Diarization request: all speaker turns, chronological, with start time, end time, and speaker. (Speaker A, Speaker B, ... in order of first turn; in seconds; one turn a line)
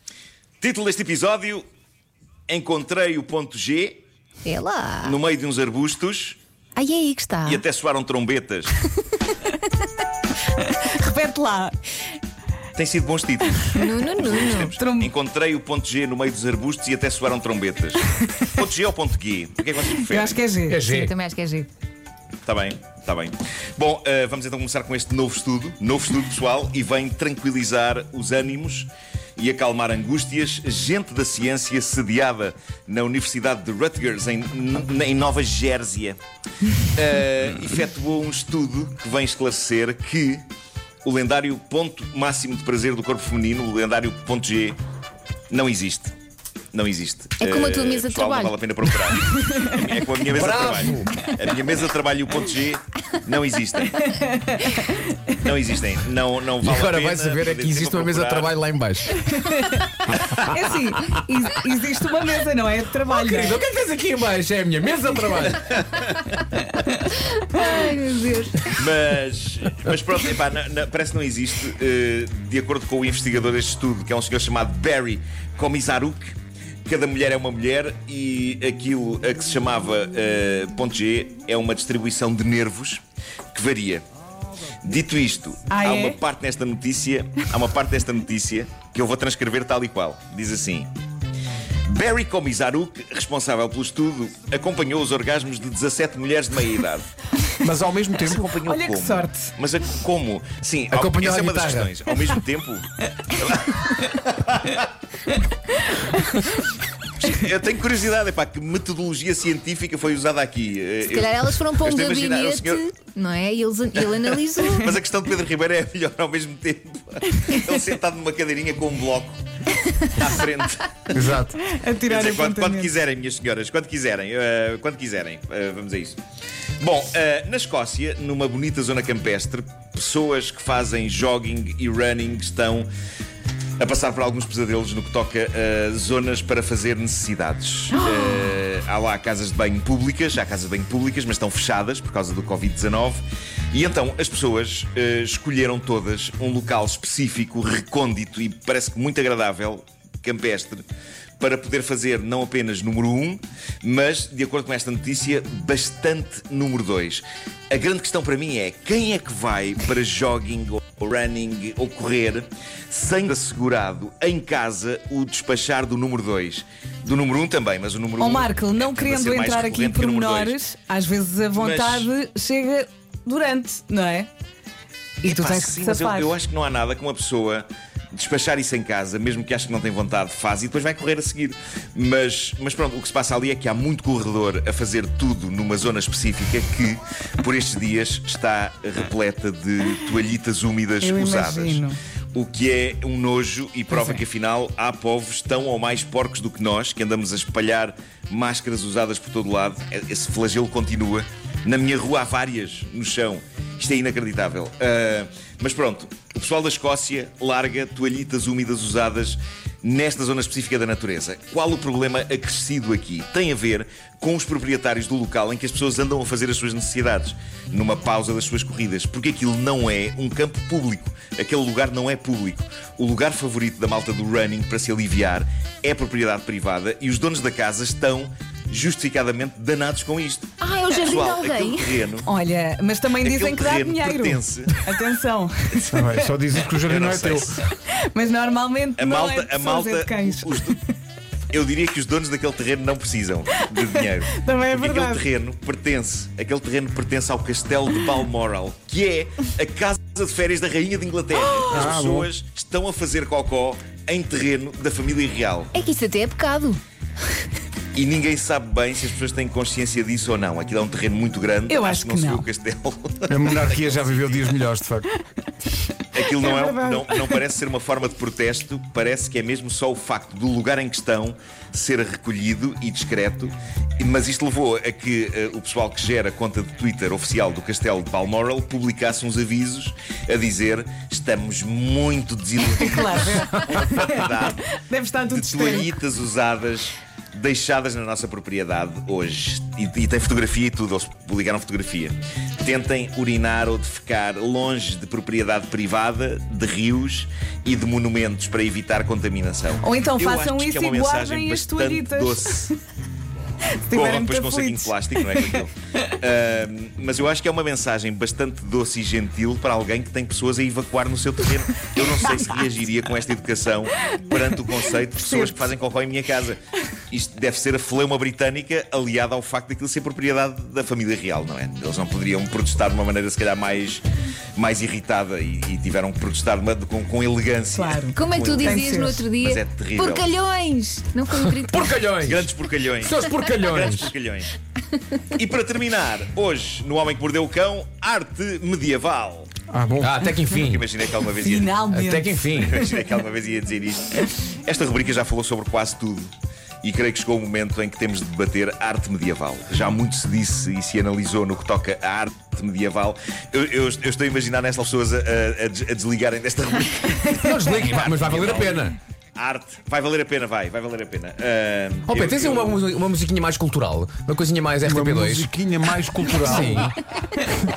Speaker A: 0.6-1.6
Speaker A: 2.5-4.0
Speaker B: 4.5-5.2
Speaker A: 5.0-6.4
Speaker B: 6.8-7.6
Speaker A: 7.5-8.8
Speaker C: 10.6-11.8
Speaker A: 12.8-20.4
Speaker B: 13.7-14.8
Speaker C: 14.8-15.1
Speaker C: 20.0-20.9
Speaker D: 20.7-21.2
Speaker B: 20.8-21.7
Speaker A: 22.4-36.2
Speaker A: 36.9-40.4
Speaker A: 41.0-44.8
Speaker A: 45.5-46.1
Speaker A: 46.7-54.0
Speaker B: 47.4-49.2
Speaker D: 50.3-51.3
Speaker C: 54.0-55.1
Speaker A: 55.4-58.6
Speaker D: 56.6-59.3
Speaker C: 59.3-63.6
Speaker D: 60.1-60.5
Speaker D: 63.1-65.9
Speaker B: 67.2-68.8
Speaker A: 68.7-76.3
Speaker A: 76.9-83.0
Speaker A: 83.5-84.0
Speaker A: 84.8-90.9
Speaker C: 85.7-86.2
Speaker A: 91.9-97.1
Speaker E: 97.6-98.4
Speaker A: 98.2-104.9
Speaker C: 98.4-99.5
Speaker D: 100.9-101.9
Speaker A: 107.2-112.8
Speaker B: 111.1-114.9
Speaker A: 113.9-119.4
Speaker A: 120.1-121.2
Speaker E: 121.2-121.5
Speaker C: 121.7-122.9
Speaker A: 122.1-126.2
Speaker A: 126.8-132.9
Speaker A: 133.8-150.8
Speaker A: 151.4-170.6
Speaker C: 168.2-174.3
Speaker A: 171.6-172.1
Speaker C: 175.2-176.3
Speaker A: 175.3-191.8
Speaker C: 191.0-192.0
Speaker A: 192.3-232.3
Speaker C: 193.9-194.2
Speaker B: 230.6-232.0
Speaker C: 232.3-236.2
Speaker A: 233.2-234.8
Speaker E: 235.9-237.4
Speaker A: 236.8-237.7
Speaker C: 237.9-240.8
Speaker A: 239.0-240.8
Speaker A: 241.5-255.7
Speaker C: 243.6-245.2
Speaker C: 251.4-251.9
Speaker E: 251.7-252.3
Speaker B: 255.7-256.8
Speaker A: 257.9-264.6
Speaker C: 261.7-262.4
Speaker E: 263.3-265.1
Speaker A: 266.1-284.6
Speaker C: 266.3-267.3
Speaker C: 282.6-285.9
Speaker A: 285.3-302.7
Speaker C: 299.8-302.7
Speaker C: 303.9-305.6
Speaker A: 303.9-324.1
Speaker C: 315.1-315.6
Speaker A: 324.6-330.3
Speaker C: 327.7-329.2
Speaker B: 328.1-332.1
Speaker D: 331.3-334.1
Speaker A: 332.2-334.5
Speaker A: 335.3-339.5
Speaker E: 339.7-340.1
Speaker D: 340.0-340.9
Speaker A: 340.5-341.8
Speaker C: 341.4-343.0
Speaker D: 341.9-342.8
Speaker A: 342.6-346.3
Speaker A: 346.8-362.9
Speaker D: 357.4-359.0
Speaker D: 362.1-365.6
Speaker E: 364.8-367.0
Speaker D: 366.4-366.9